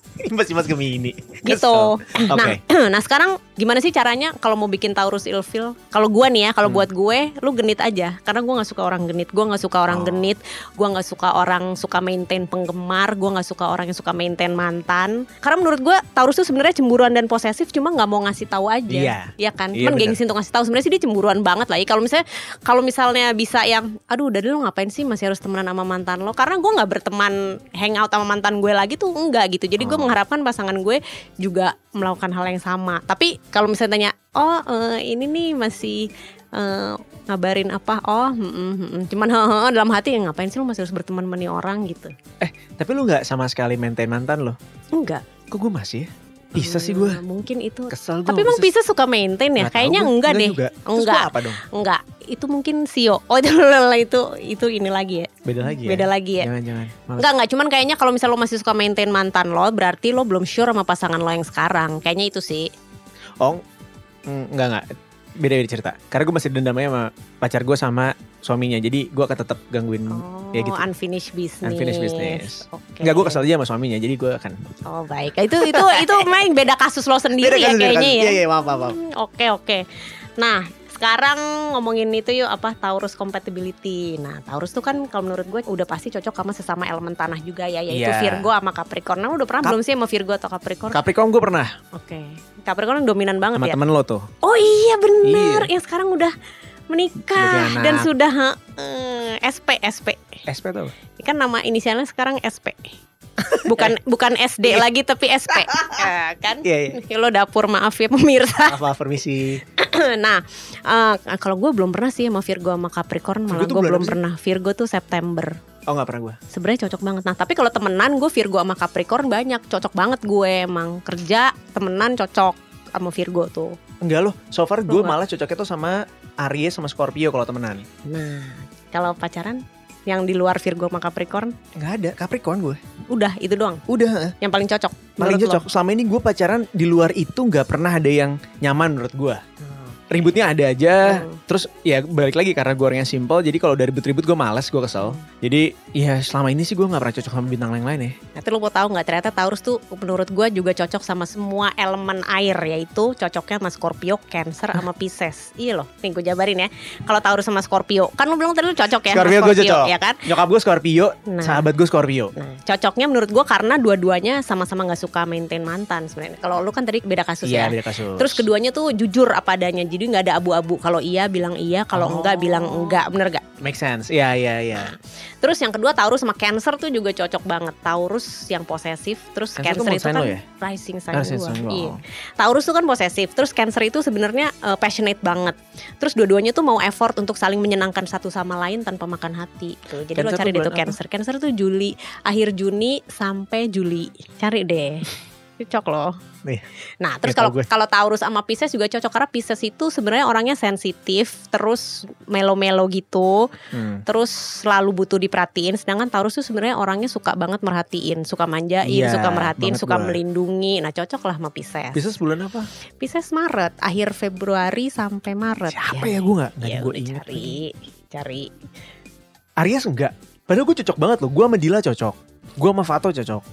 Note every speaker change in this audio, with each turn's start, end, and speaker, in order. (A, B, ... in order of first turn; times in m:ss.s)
0:00.2-0:02.6 A
0:01.4-0:42.1 B
0:09.9-0:10.3 A
0:18.9-0:20.2 A
0:29.8-0:30.1 A
0:42.4-0:44.6 A
0:44.9-0:45.2 B
0:45.5-0:47.2 A
0:46.6-0:56.5 B
0:47.9-0:48.7 A
0:49.6-0:51.6 A
0:55.4-0:57.3 A
0:57.2-1:02.7 B
1:04.3-1:10.8 A
1:10.1-1:13.5 B
1:11.6-1:14.6 A
1:14.8-1:19.8 B
1:15.6-1:16.3 A
1:17.4-1:19.0 A
1:20.4-1:31.0 B
1:27.9-1:28.5 A
1:30.9-1:31.7 A
1:31.9-1:33.8 B
1:33.5-1:34.3 A
1:34.4-1:36.3 B
1:35.2-1:35.7 A
1:36.9-1:40.4 B
1:37.3-1:38.1 A
1:40.5-1:40.9 A
1:41.2-1:42.9 B
1:43.5-1:48.8 B
1:43.5-1:43.9 A
1:45.6-1:46.0 A
1:46.6-1:47.0 A
1:48.7-1:49.6 A
1:49.7-1:55.6 B
1:53.5-1:54.2 A
1:55.9-1:56.4 A
1:56.5-2:03.8 B
2:04.0-2:07.8 A
2:04.9-2:05.1 B
2:08.0-2:11.5 B
2:11.8-2:12.8 A
2:13.1-2:13.8 B
2:13.9-2:14.3 A
2:14.4-2:15.6 B
2:15.2-2:19.4 A
2:19.6-2:20.2 B
2:20.1-2:28.2 A
2:21.0-2:21.4 B
2:25.0-2:25.2 B
2:28.3-2:40.2 B
2:39.1-2:42.3 A
2:41.3-2:41.6 B
2:42.4-2:53.4 B
2:47.4-2:48.4 A
2:51.9-2:53.0 A
2:53.6-2:54.9 A
2:54.7-3:16.1 B
2:59.6-3:00.4 A
3:01.1-3:02.0 A
3:10.1-3:11.0 A
3:17.0-3:23.5 B
3:17.2-3:17.6 A
3:23.7-3:24.0 A
3:24.0-3:32.1 B
3:28.8-3:30.2 A
3:31.9-3:32.7 A
3:33.0-3:38.5 B
3:35.7-3:37.6 A
3:39.6-3:43.4 A